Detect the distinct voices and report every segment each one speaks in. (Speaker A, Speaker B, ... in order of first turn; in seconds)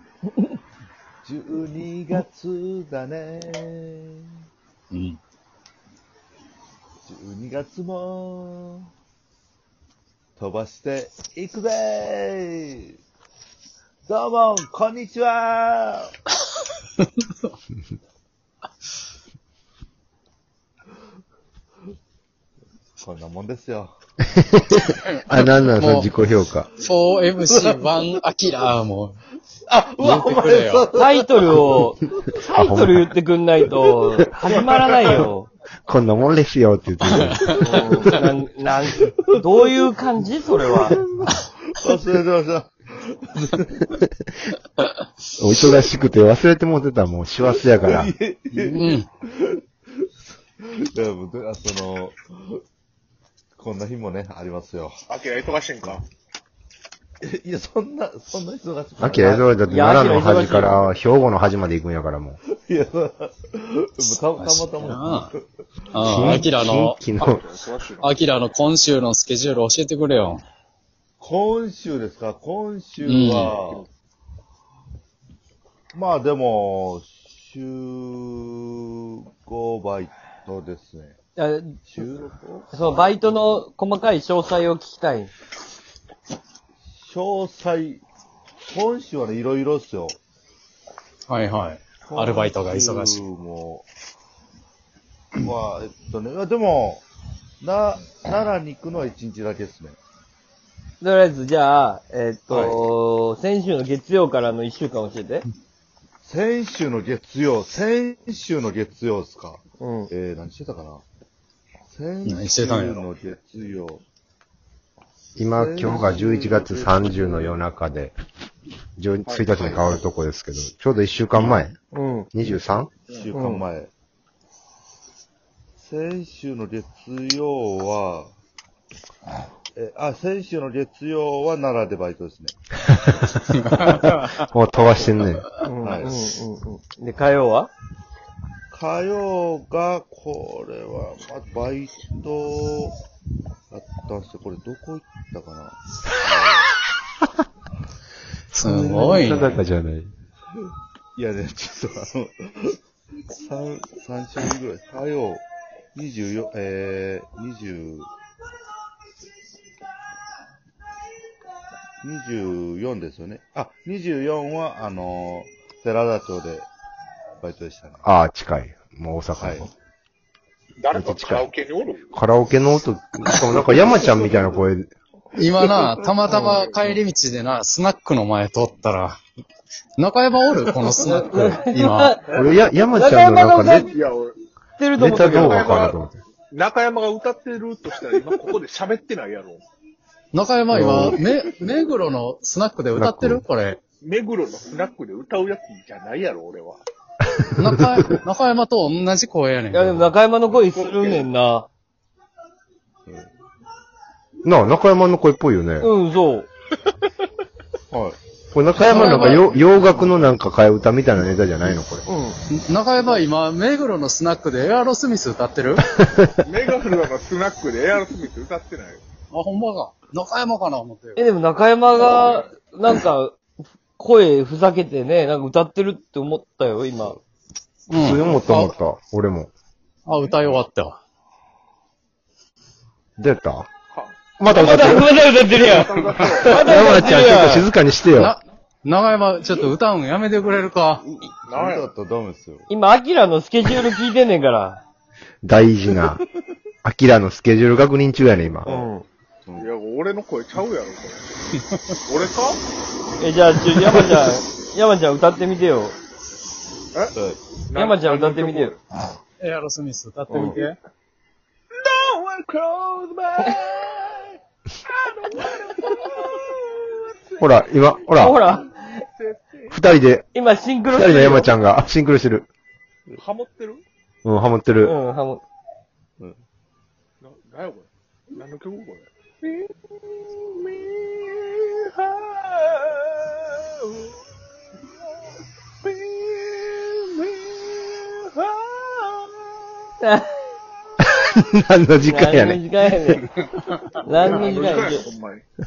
Speaker A: 1.2-4.3, 7.1-8.9, 10.4-13.0, 14.1-16.1, 23.0-23.9, 27.5-27.8, 29.7-31.2, 34.5-35.3, 40.9-43.9, 47.4-49.6, 50.6-52.6, 53.6-55.0, 57.2-59.5, 60.0-60.7, 62.5-65.4, 71.2-73.8, 75.9-81.2, 81.8-83.1, 86.9-88.0, 88.7-90.2, 92.1-93.9, 95.4-97.0, 97.6-100.0, 102.5-102.8, 106.2-111.0, 111.9-114.0, 115.5-117.6, 123.1-123.9, 125.8-128.3, 129.8-132.6, 135.8-136.2, 138.7-143.0, 143.7-146.7, 151.2-152.8, 153.3-155.4, 155.9-158.1, 162.0-166.7, 167.4-168.1, 169.4-169.7, 173.7-174.6, 175.8-176.1, 207.9-208.2, 209.1-210.3, 241.0-242.7, 248.6-248.9, 249.5-249.7, 257.1-257.4
Speaker B: 4.9-5.2, 25.8-26.1, 26.8-29.2, 30.0-30.9, 37.1-38.2, 48.5-49.1, 64.0-65.3, 65.9-67.3, 68.0-70.4, 73.0-73.5, 91.3-93.2, 112.2-113.0, 121.4-121.7, 133.6-134.5, 148.5-149.6, 175.3-179.2, 180.0-182.2, 190.3-193.8, 197.5-200.1, 208.8-209.5, 212.5-215.9, 219.3-221.2, 227.9-228.8, 230.1-231.0, 238.2-241.0, 259.4-260.8
Speaker C: 24.2-26.7, 32.5-33.1, 35.9-37.9, 45.4-48.1, 59.0-62.4, 66.0-67.4, 115.4-118.2, 119.0-121.8, 122.3-122.9, 132.9-133.3, 133.8-135.5, 148.6-150.1, 168.0-169.7, 170.9-171.5, 172.1-174.9, 182.3-183.9, 185.0-186.2, 190.7-191.2, 192.9-193.4, 197.4-198.0, 204.4-205.9, 208.5-212.1, 227.9-229.5, 233.2-233.7, 234.4-235.1, 236.4-238.3, 245.4-246.2, 246.8-248.7, 267.4-268.4, 269.7-270.3, 270.9-272.5, 274.2-274.9, 291.0-293.2
Speaker D: 30.9-35.5, 37.6-41.0, 59.7-60.8, 81.4-81.8, 82.7-85.3, 101.0-105.5, 109.8-110.1, 121.9-122.3, 123.3-123.7, 135.6-137.7, 176.3-176.6, 181.0-183.9, 184.8-185.8, 199.7-201.7, 205.8-206.5, 208.9-209.3, 212.1-212.4, 221.2-223.4, 224.0-227.2, 234.4-237.7, 242.7-244.8, 248.7-249.1, 253.2-256.0, 257.8-258.8, 260.3-260.6, 268.2-268.7, 270.3-271.5, 274.8-275.4, 290.0-290.4, 292.1-293.2, 294.0-295.1
Speaker E: 55.1-56.0, 67.2-68.2, 73.3-73.9, 119.3-119.8, 123.1-123.4, 170.8-172.1, 176.4-176.7, 183.9-184.4, 185.3-186.0, 186.5-189.7, 194.0-196.8, 200.6-201.2, 216.4-219.0, 233.9-234.2, 235.6-237.0, 241.5-241.9, 249.6-251.2, 252.1-252.6, 256.9-258.8, 260.3-260.6, 261.7-264.3, 264.8-267.7, 268.2-269.8, 273.2-273.8, 277.2-284.1, 285.8-289.3, 294.2-295.4